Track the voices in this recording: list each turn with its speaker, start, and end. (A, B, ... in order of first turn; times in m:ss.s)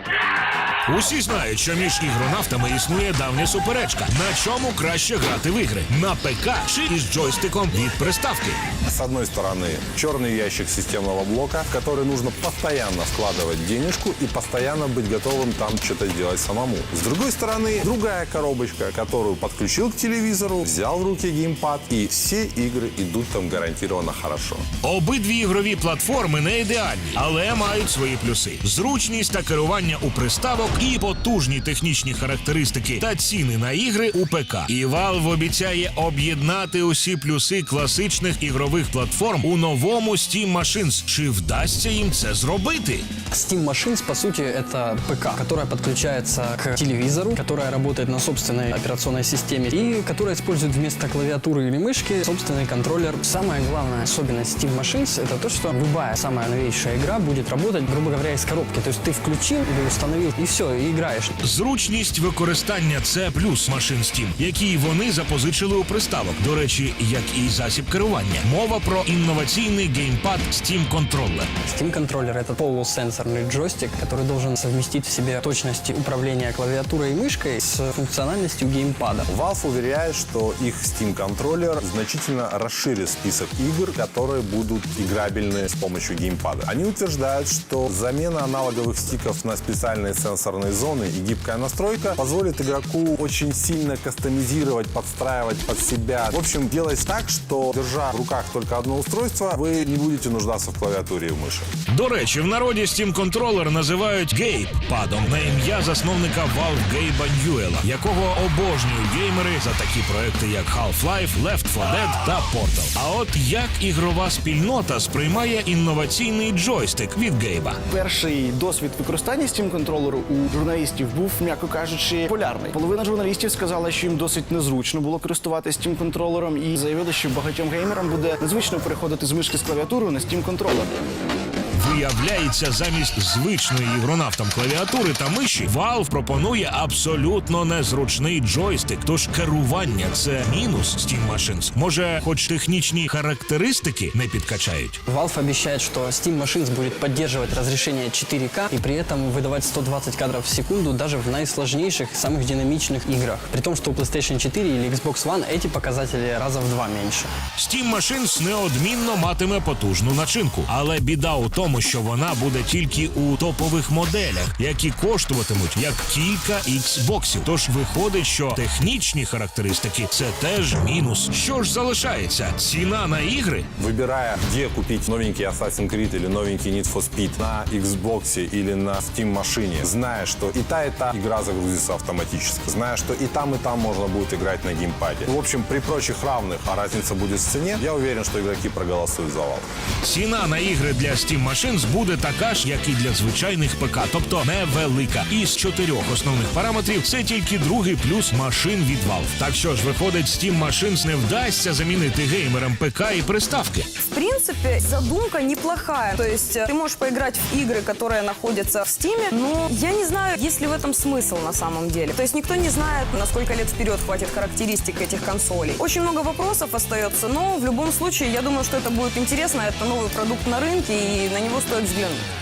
0:00.9-0:08.6 A
0:08.9-0:24.6 B
0:24.8-0:43.1 A
0:43.3-1:01.3 C
1:01.4-1:11.5 A
1:11.6-1:19.3 C
1:19.3-1:41.7 B
1:41.9-1:57.8 A
1:57.9-2:10.9 D
2:11.7-2:25.0 A
2:25.1-2:37.3 C
2:37.6-2:53.7 A
2:53.8-3:09.7 B
3:10.0-3:23.9 A
3:24.0-3:42.2 E